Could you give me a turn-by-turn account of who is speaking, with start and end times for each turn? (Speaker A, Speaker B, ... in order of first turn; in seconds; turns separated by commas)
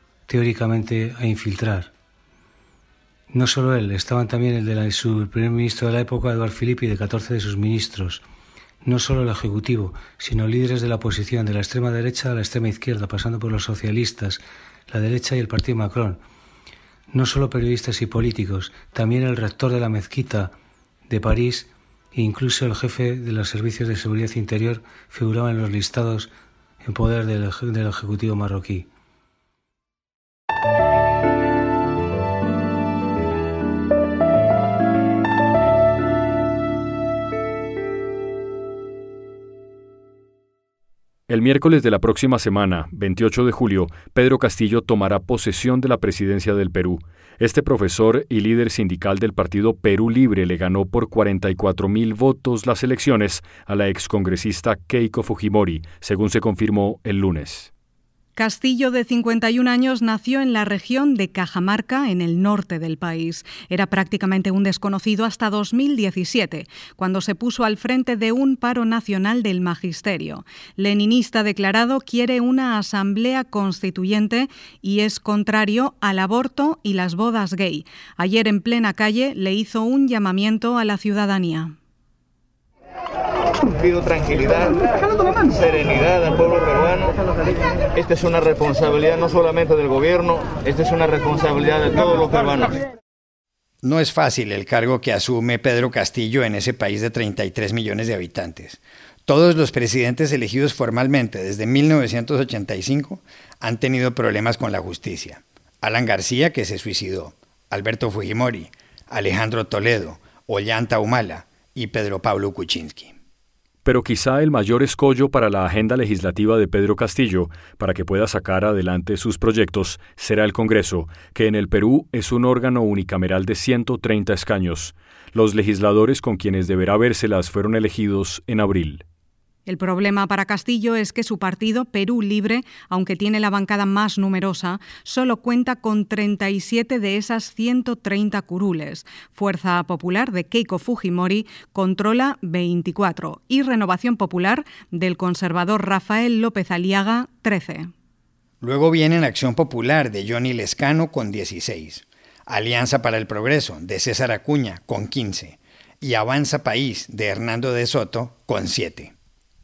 Speaker A: 0.3-1.9, Speaker A: 3.3-8.2, Speaker A: 8.8-16.2, Speaker A: 17.1-20.5, Speaker A: 21.1-26.3, Speaker A: 26.8-28.9, Speaker B: 41.3-57.7, Speaker C: 58.4-81.7, Speaker D: 83.8-84.9, Speaker D: 85.4-87.1, Speaker D: 88.0-92.8, Speaker E: 93.8-113.1, Speaker B: 113.8-129.0, Speaker C: 129.7-147.9, Speaker E: 148.6-159.1